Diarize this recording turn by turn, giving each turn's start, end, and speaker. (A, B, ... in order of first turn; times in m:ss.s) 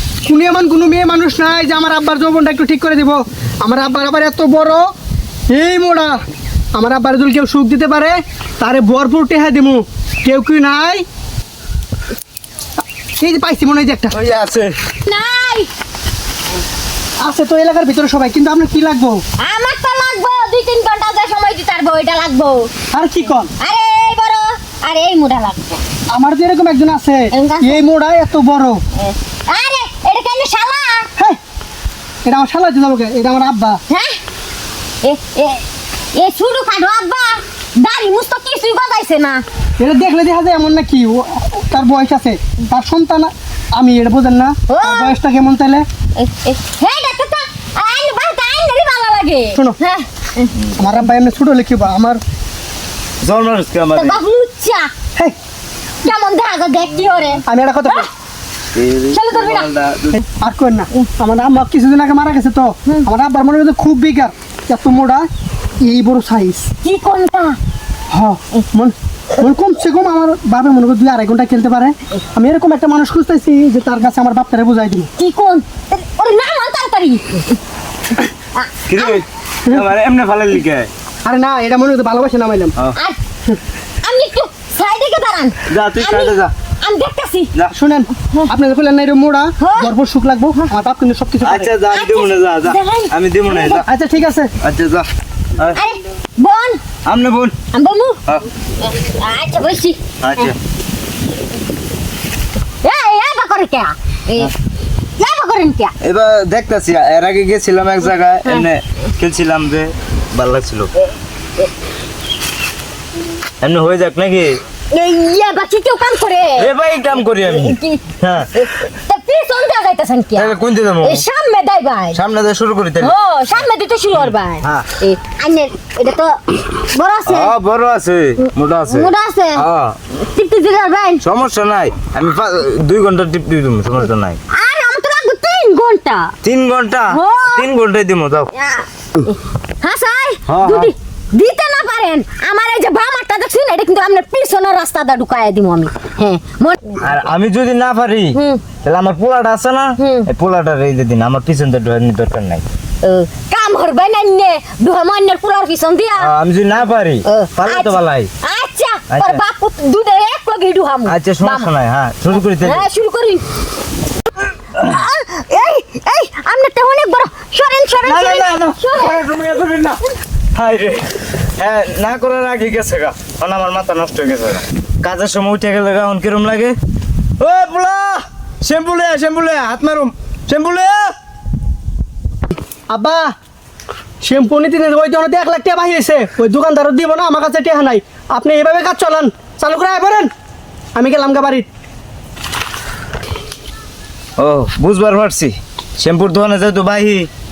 0:00.2-0:04.8 A
0:05.5-0:06.2 A
0:06.7-0:11.0 A
0:13.2-0:14.2 A
0:14.1-0:14.8 B
0:15.0-0:15.7 C
0:17.2-0:19.2 A
0:19.4-0:22.7 C
0:22.9-0:23.5 A
0:23.6-0:25.8 C
0:26.1-0:28.8 A
0:27.3-0:27.8 C
0:29.0-0:31.1 C
0:32.2-0:33.8 A
0:33.9-0:34.2 C
0:35.0-0:39.4 C
0:39.8-0:45.8 A
0:44.7-0:45.1 C
0:46.2-0:50.5 C
0:50.8-0:52.2 A
0:53.2-0:54.2 B
0:53.9-0:54.9 C
0:56.0-0:58.1 C
0:57.5-0:58.1 A
0:58.7-1:00.2 B
0:59.1-0:59.7 C
1:00.1-1:05.3 A
1:05.8-1:06.7 A
1:06.8-1:07.6 C
1:08.1-1:15.1 A
1:15.2-1:17.6 C
1:18.5-1:19.2 C
1:18.9-1:20.9 B
1:21.2-1:22.7 A
1:22.9-1:23.2 C
1:24.0-1:27.5 C
1:25.7-1:26.5 B
1:27.7-1:31.7 A
1:29.6-1:29.9 C
1:31.4-1:33.9 B
1:31.9-1:33.8 C
1:33.7-1:34.5 A
1:34.6-1:35.8 B
1:35.7-1:36.8 C
1:37.0-1:37.6 B
1:37.7-1:38.2 C
1:38.8-1:40.5 C
1:40.2-1:40.6 B
1:42.8-1:44.5 C
1:45.2-1:45.9 C
1:46.0-1:50.9 B
1:53.6-1:54.6 B
1:54.9-1:56.7 C
1:56.6-1:58.5 B
1:57.4-2:02.2 C
2:00.4-2:01.2 B
2:02.1-2:03.1 B
2:03.0-2:07.5 C
2:04.1-2:04.9 B
2:07.3-2:10.0 B
2:08.4-2:09.6 C
2:10.2-2:11.2 C
2:11.2-2:14.4 B
2:14.5-2:16.3 C
2:16.4-2:18.5 B
2:17.1-2:17.7 C
2:18.5-2:27.0 C
2:20.5-2:20.9 B
2:27.0-2:32.6 B
2:28.3-2:28.6 C
2:30.0-2:30.3 C
2:33.0-2:36.3 C
2:36.2-2:38.3 B
2:37.2-2:41.7 C
2:39.1-2:39.4 B
2:41.0-2:42.8 B
2:42.3-2:43.4 C
2:44.8-2:49.2 C
2:48.0-2:50.0 B
2:50.5-2:56.8 B
2:57.4-3:01.1 B
3:02.9-3:03.3 A
3:04.2-3:10.3 A
3:10.9-3:11.7 A
3:14.4-3:17.3 B